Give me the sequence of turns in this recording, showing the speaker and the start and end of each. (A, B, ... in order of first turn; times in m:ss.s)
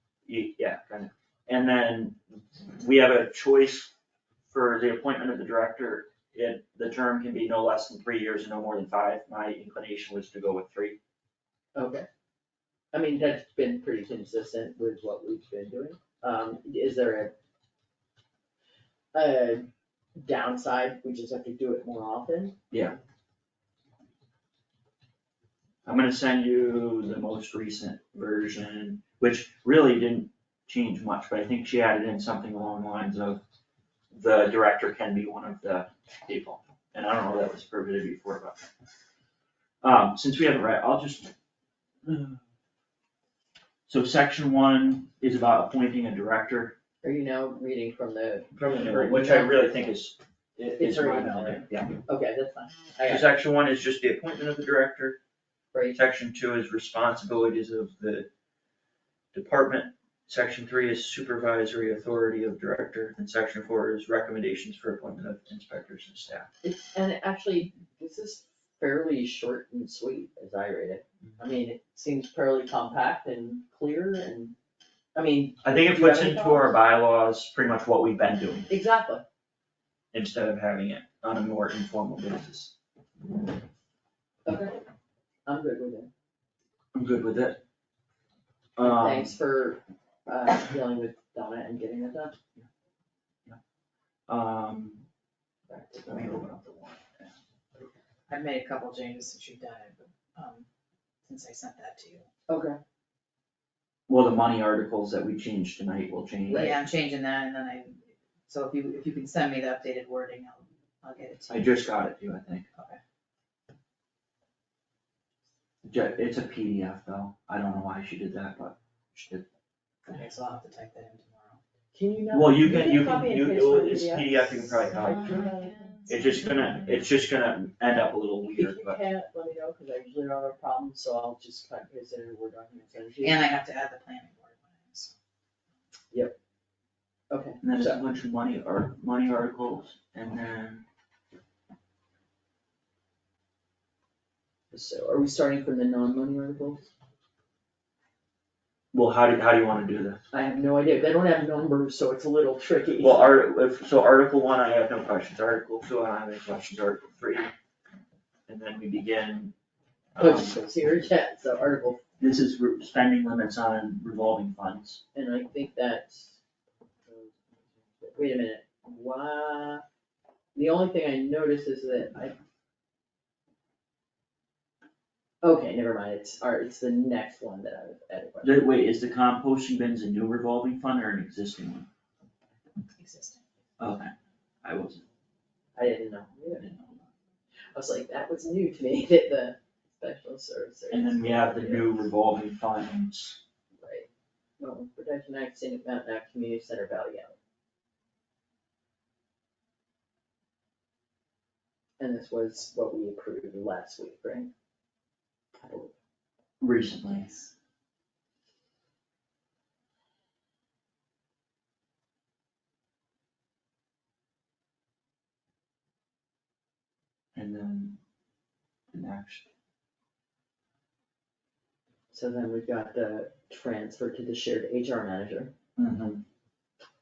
0:00.2-0:03.9 A
0:04.5-0:11.0 A
0:11.7-0:12.1 B
0:12.9-0:17.3 B
0:19.1-0:22.5 B
0:22.7-0:23.0 A
0:25.8-0:33.4 A
0:34.1-0:38.6 A
0:39.8-0:41.3 A
0:42.0-0:42.4 A
0:43.9-0:46.7 A
0:47.0-0:49.8 B
0:48.5-0:51.9 A
0:50.8-0:53.3 B
0:53.0-0:55.2 A
0:55.7-0:56.0 B
0:55.9-0:58.3 A
0:59.3-1:06.5 A
1:06.6-1:14.5 B
1:15.1-1:16.8 B
1:15.6-1:18.7 A
1:18.7-1:19.2 B
1:20.1-1:22.7 A
1:24.4-1:24.8 B
1:25.4-1:26.1 B
1:26.9-1:27.6 A
1:28.8-1:29.4 A
1:28.8-1:32.3 B
1:34.3-1:35.0 A
1:35.7-1:36.4 B
1:36.1-1:37.3 A
1:38.3-1:40.7 C
1:41.3-1:42.3 C
1:42.5-1:42.8 B
1:44.1-1:46.7 A
1:46.5-1:46.8 B
1:46.5-1:51.9 C
1:51.5-1:52.6 A
1:55.8-1:59.4 A
2:00.1-2:01.6 C
2:01.9-2:05.8 B
2:02.3-2:05.5 A
2:05.8-2:06.1 C
2:06.1-2:09.0 A
2:08.6-2:13.4 B
2:13.2-2:15.1 C
2:17.3-2:18.0 B
2:17.6-2:20.8 A
2:24.7-2:26.9 B
2:28.9-2:30.2 A
2:30.3-2:33.3 B
2:33.0-2:37.5 A
2:38.5-2:39.5 A
2:40.1-2:40.6 A
2:40.2-2:42.0 B
2:42.2-2:45.0 A
2:45.1-2:46.4 B
2:47.1-2:49.8 B
2:50.5-2:52.4 B
2:55.4-2:58.6 B
2:58.4-3:01.9 A
3:02.9-3:03.4 C
3:03.8-3:04.1 A
3:04.6-3:05.0 A
3:05.8-3:07.0 B
3:07.7-3:12.1 B
3:10.9-3:13.4 A
3:13.8-3:14.1 B
3:14.6-3:17.4 B
3:22.0-3:24.5 B
3:25.5-3:25.9 B
3:26.6-3:27.3 A
3:27.1-3:27.4 C
3:37.3-3:38.0 A
3:38.9-3:39.4 A
3:42.1-3:45.5 B
3:45.8-3:46.2 A